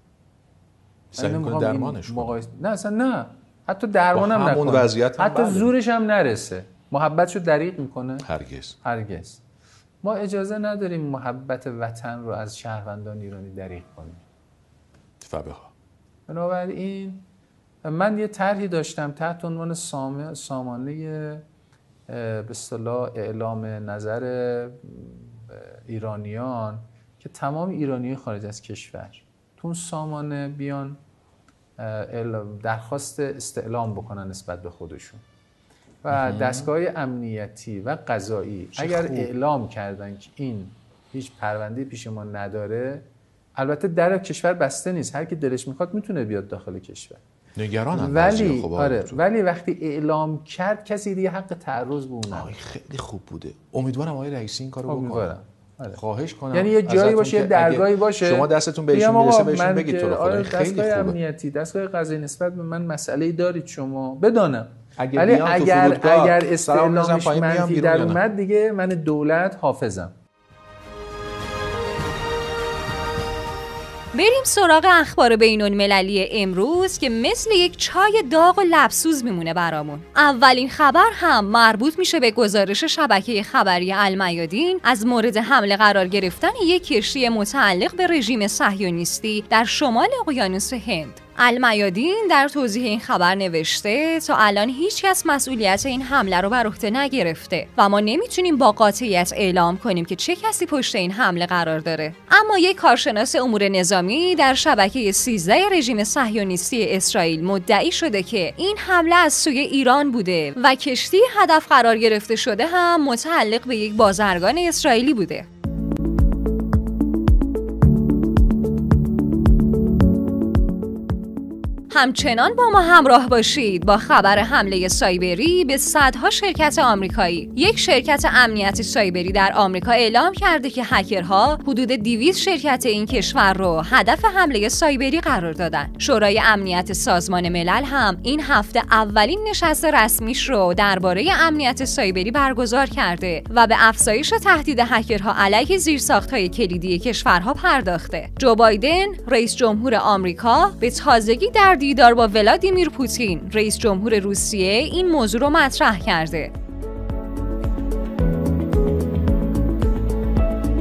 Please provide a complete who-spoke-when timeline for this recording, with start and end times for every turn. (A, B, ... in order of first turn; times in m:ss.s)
0:01.1-0:02.3 A
0:01.2-0:08.3 B
0:04.1-0:05.7 A
0:08.2-0:08.8 A
0:08.8-0:09.4 B
0:10.0-0:14.2 B
0:15.2-0:15.7 A
0:16.3-0:17.3 B
0:17.8-0:21.4 B
0:22.1-0:31.0 B
0:31.8-0:35.2 B
0:36.0-0:43.0 B
0:36.1-0:36.7 A
0:38.8-0:39.3 A
0:43.6-0:47.2 B
0:47.6-0:49.2 A
0:47.9-0:52.5 B
0:52.3-0:55.3 A
0:54.9-0:56.0 B
0:55.9-1:01.2 A
0:56.5-1:10.2 B
1:05.0-1:08.2 A
1:14.1-1:55.5 C
2:01.9-2:36.5 C